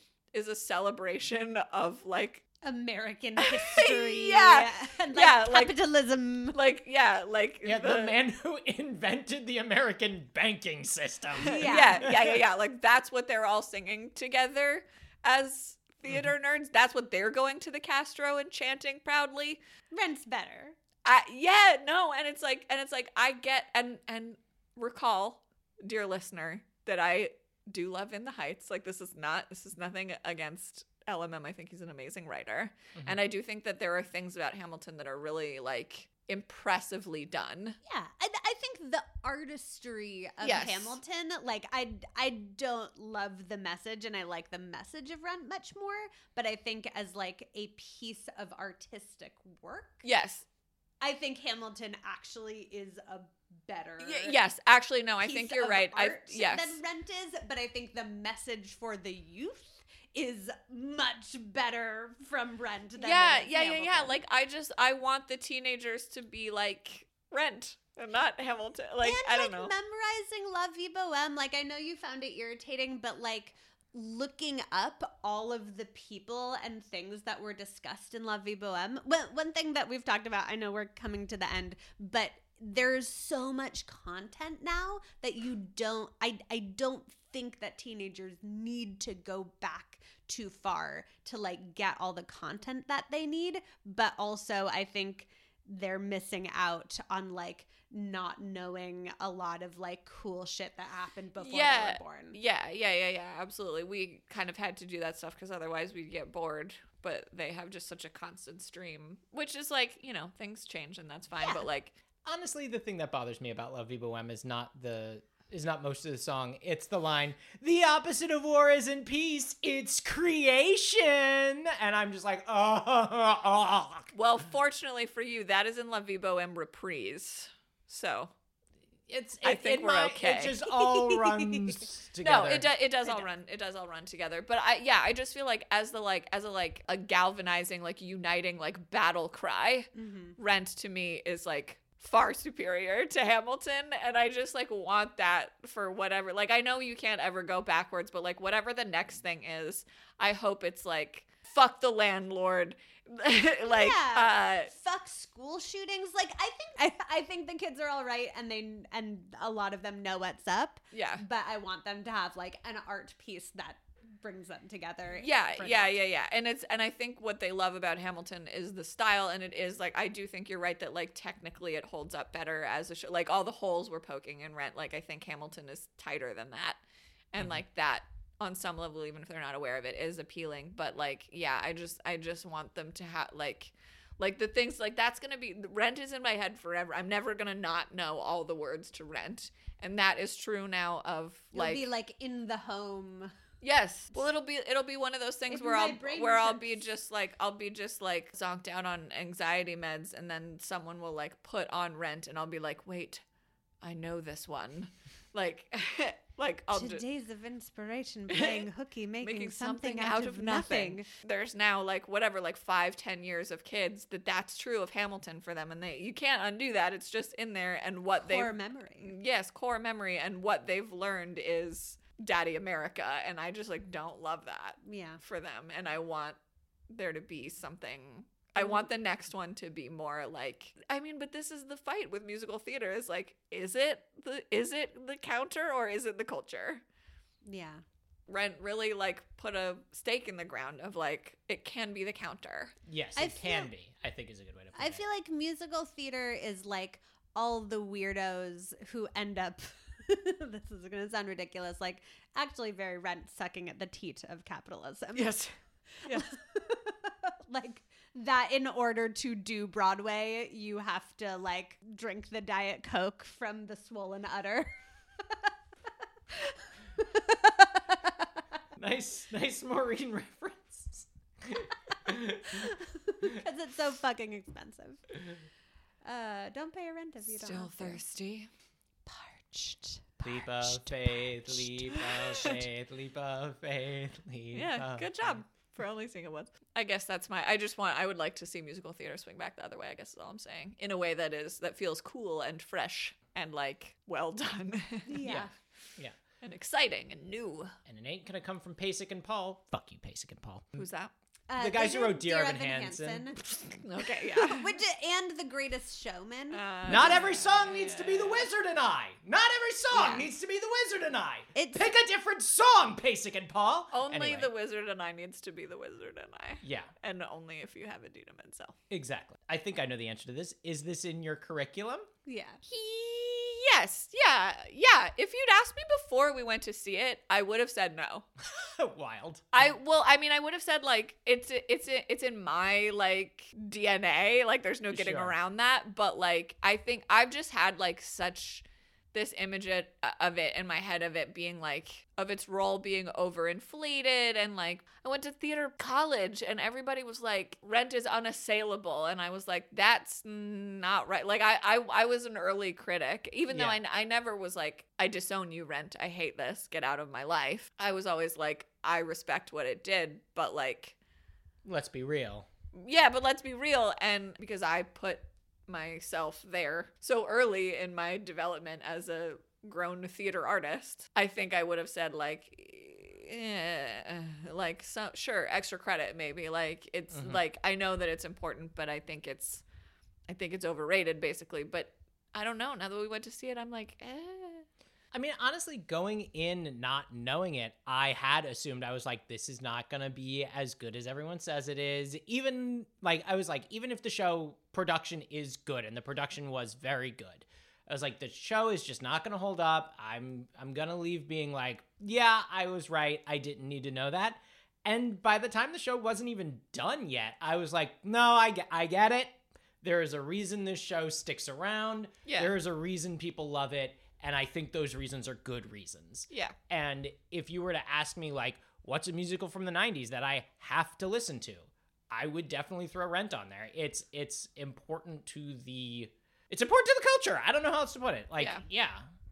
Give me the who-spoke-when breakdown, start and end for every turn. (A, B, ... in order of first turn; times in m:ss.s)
0:00.3-0:02.4 A
0:02.6-0:06.6 B
0:03.4-0:05.8 A
0:06.5-0:08.1 A
0:07.6-0:12.4 C
0:11.4-0:19.6 A
0:11.5-0:12.1 B
0:19.9-0:20.8 B
0:21.0-0:37.8 A
0:37.8-0:50.0 B
0:40.4-0:41.0 A
0:50.0-0:50.4 A
0:51.0-0:54.4 B
0:54.0-0:56.8 A
0:55.2-1:04.2 B
1:03.0-1:09.7 A
1:09.0-1:42.4 B
1:41.4-1:52.0 A
1:52.2-2:04.1 C
2:04.1-2:08.3 A
2:09.1-2:12.7 C
2:09.4-2:10.6 A
2:10.7-2:11.8 B
2:12.2-2:34.7 A
2:20.0-2:20.4 B
2:33.6-2:46.0 B
2:40.9-2:41.2 A
2:45.2-2:56.8 A
2:57.3-3:11.8 A
3:11.5-3:13.3 B
3:13.6-3:23.2 A
3:15.5-3:16.8 B
3:23.8-3:27.0 A
3:26.7-3:31.1 B
3:28.3-3:28.7 A
3:29.2-3:46.4 A
3:38.2-3:39.1 B
3:44.8-3:45.2 B
3:46.9-3:56.8 A
3:48.6-3:48.8 B
3:57.5-3:57.8 B
3:58.3-4:02.8 A
4:02.9-4:05.0 C
4:03.2-4:03.7 B
4:04.8-4:15.4 B
4:15.2-4:15.5 A
4:15.9-4:24.7 B
4:25.2-4:25.5 B
4:26.3-4:28.4 B
4:28.8-4:32.8 C
4:32.5-4:35.0 B
4:36.0-4:38.0 B
4:37.2-4:38.5 A
4:39.1-4:42.4 B
4:40.2-4:45.4 C
4:42.2-4:42.6 A
4:44.5-4:55.4 A
4:55.1-4:55.5 B
4:55.2-4:56.2 C
4:56.4-4:57.7 A
4:57.9-5:00.8 C
5:00.8-5:01.1 A
5:01.5-5:03.4 B
5:01.6-5:03.2 C
5:03.5-5:04.7 A
5:04.2-5:07.2 B
5:06.5-5:08.4 A
5:06.9-5:14.5 C
5:09.9-5:10.3 B
5:11.6-5:12.0 B
5:13.9-5:18.8 A
5:16.6-5:16.9 C
5:18.9-5:22.1 C
5:22.3-5:22.6 B
5:22.7-5:28.3 A
5:28.5-5:29.7 C
5:29.5-6:01.0 A
5:34.9-5:35.3 C
5:53.5-5:53.8 C
6:01.6-6:02.5 C
6:02.7-6:19.6 A
6:17.1-6:17.4 C
6:20.3-6:24.7 A
6:25.1-7:09.1 C
6:52.2-6:52.5 A
6:56.3-6:56.6 A
7:08.4-7:08.6 A